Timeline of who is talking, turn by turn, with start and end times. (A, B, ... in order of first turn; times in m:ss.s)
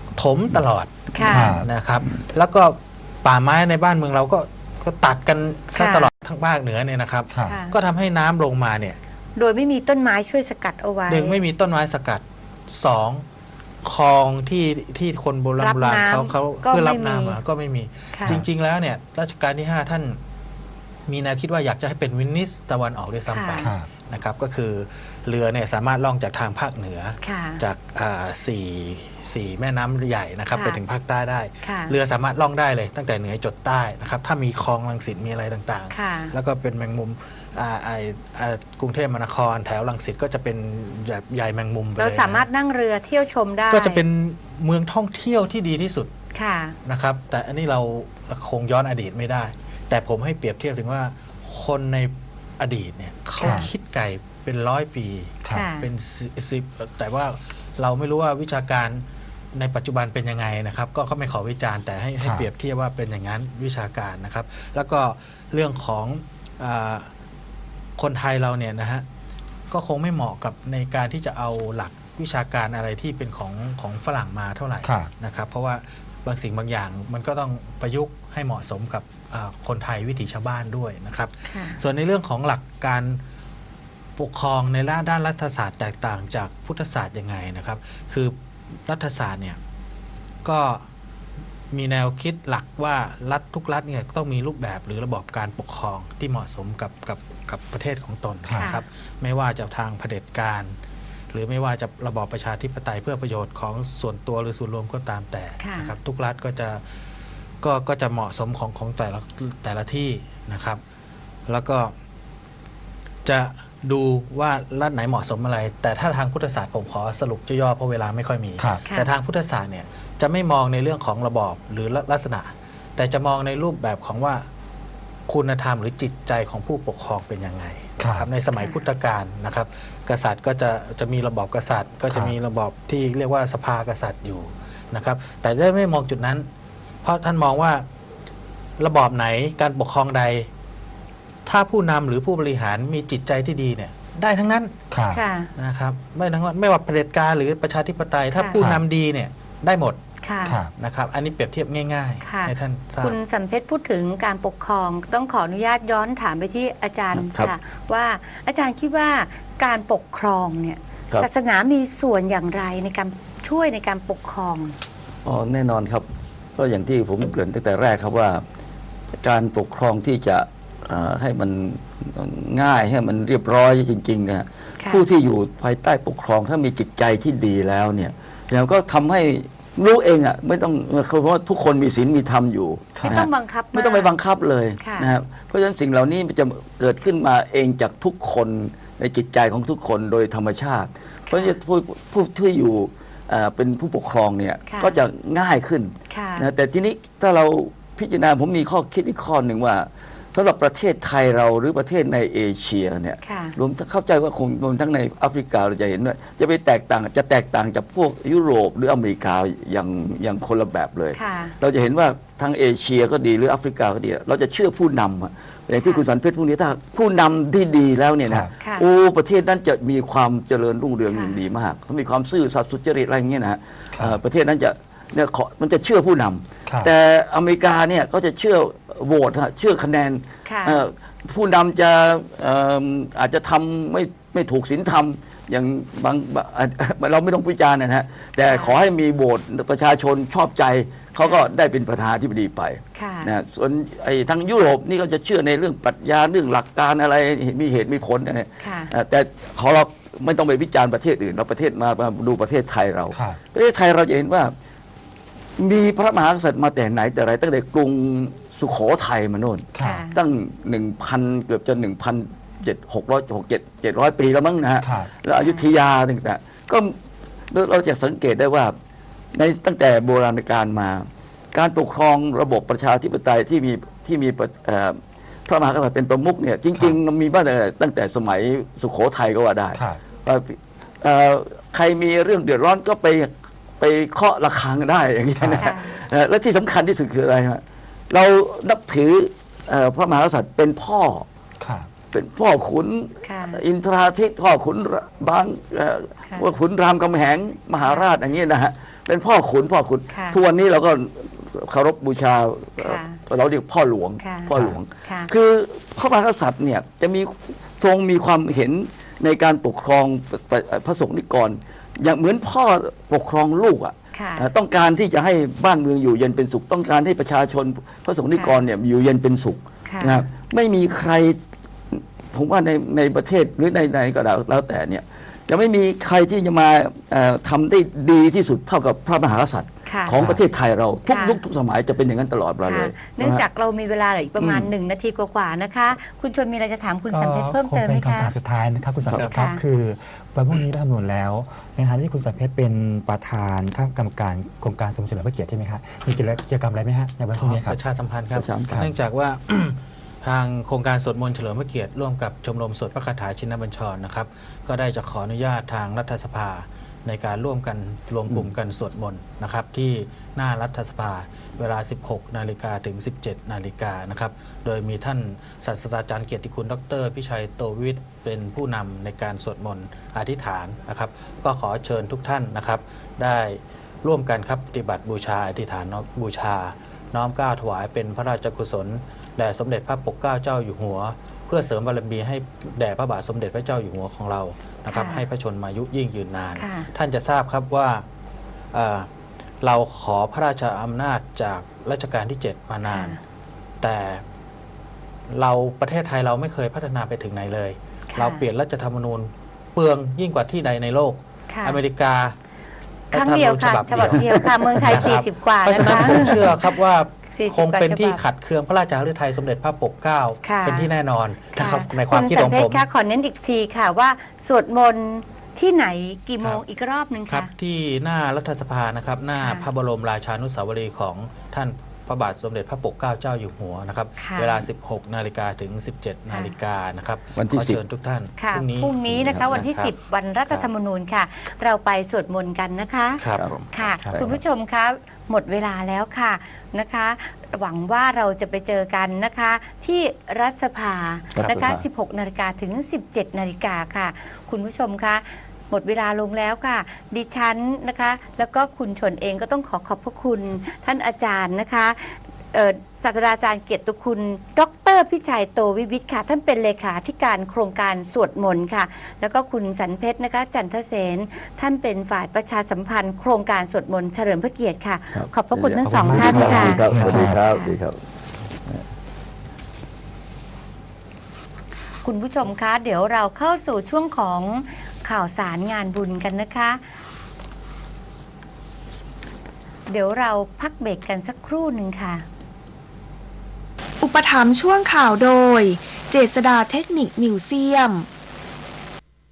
0:00.2-0:09.0 A
0:01.2-0:01.6 B
0:01.2-0:01.7 C
0:05.7-0:06.1 B
0:07.3-0:07.6 C
0:07.5-0:07.8 B
0:09.4-0:11.4 B
0:11.1-0:13.2 A
0:13.8-0:20.2 A
0:15.6-0:17.4 B
0:18.1-0:18.4 B
0:21.1-0:42.5 A
0:23.3-0:23.7 B
0:23.6-0:23.9 C
0:27.2-0:27.6 B
0:31.6-0:31.9 B
0:35.9-0:36.3 B
0:42.0-0:44.0 B
0:43.7-0:46.1 A
0:46.3-0:46.8 B
0:46.8-1:07.1 A
0:53.4-0:53.7 B
0:53.4-0:53.7 C
0:55.4-0:55.7 C
0:55.5-0:55.9 B
1:02.2-1:02.5 C
1:08.0-1:09.0 A
1:09.7-1:23.2 A
1:14.8-1:15.1 C
1:21.5-1:21.8 B
1:24.2-1:28.4 A
1:28.9-1:29.6 A
1:30.4-1:30.9 A
1:31.7-1:40.7 A
1:38.5-1:38.7 C
1:38.6-1:38.8 B
1:41.3-1:46.8 A
1:45.6-1:45.9 B
1:47.6-1:50.8 A
1:51.5-1:51.9 A
1:53.2-2:04.5 A
1:58.6-1:58.8 C
2:05.3-2:16.5 A
2:08.0-2:08.3 C
2:17.0-2:17.8 A
2:18.8-2:20.5 A
2:21.5-2:24.7 A
2:24.9-2:25.2 C
2:25.1-2:25.5 B
2:25.6-2:30.0 A
2:28.6-2:28.8 C
2:30.2-2:30.6 B
2:30.4-2:30.7 C
2:30.8-2:33.2 A
2:32.2-2:44.8 B
2:37.1-2:37.5 D
2:45.2-2:46.1 D
2:46.6-2:48.4 D
2:49.2-4:14.5 D
3:03.0-3:03.3 C
3:03.0-3:04.1 B
3:04.8-3:05.1 B
3:11.3-3:11.6 B
3:14.7-3:15.0 B
3:16.1-3:16.5 B
3:23.2-3:23.6 B
3:31.1-3:31.6 B
3:38.6-3:38.9 B
3:41.1-3:41.4 B
3:50.5-3:50.8 B
4:01.2-4:01.5 B
4:03.0-4:03.3 B
4:08.6-4:08.9 B
4:13.1-4:13.4 C
4:15.6-4:26.9 D
4:19.8-4:20.1 C
4:19.8-4:20.2 B
4:24.8-4:25.1 C
4:27.5-4:28.7 D
4:29.3-4:51.3 D
4:39.7-4:40.0 C
4:45.4-4:45.7 C
4:45.5-4:45.9 B
4:51.6-4:51.9 C
4:52.1-5:21.4 D
4:53.3-4:53.6 B
5:00.1-5:00.4 B
5:02.8-5:03.2 B
5:04.2-5:04.5 B
5:05.1-5:05.3 B
5:14.1-5:14.5 B
5:19.9-5:20.2 B
5:21.9-5:33.4 D
5:29.9-5:30.2 B
5:31.1-5:31.4 B
5:32.7-5:38.3 B
5:34.4-5:34.7 D
5:37.1-5:47.8 C
5:39.2-5:39.6 B
5:47.4-6:28.0 A
5:48.3-5:48.8 D
6:24.9-6:25.2 B
6:26.6-6:26.9 B
6:28.7-6:29.1 A
6:29.6-6:33.2 A
6:32.9-6:33.2 B
6:33.8-6:34.2 A
6:35.3-6:42.4 A
6:38.1-6:38.4 B
6:41.5-6:41.8 B
6:43.1-6:52.8 A
6:43.1-6:46.6 B
6:47.4-6:48.2 B
6:50.4-6:50.9 B
6:51.6-6:57.5 B
6:57.3-7:09.9 A
6:59.4-6:59.7 B
7:04.2-7:04.6 B
7:07.4-7:07.8 D
7:08.4-7:47.7 B
7:09.1-7:09.6 D
7:13.2-7:13.5 A
7:13.4-7:14.4 D
7:21.3-7:21.8 D
7:45.1-7:48.0 D
7:45.8-7:47.4 C
7:52.0-7:56.8 B
7:59.9-8:02.2 B
8:04.0-8:08.1 E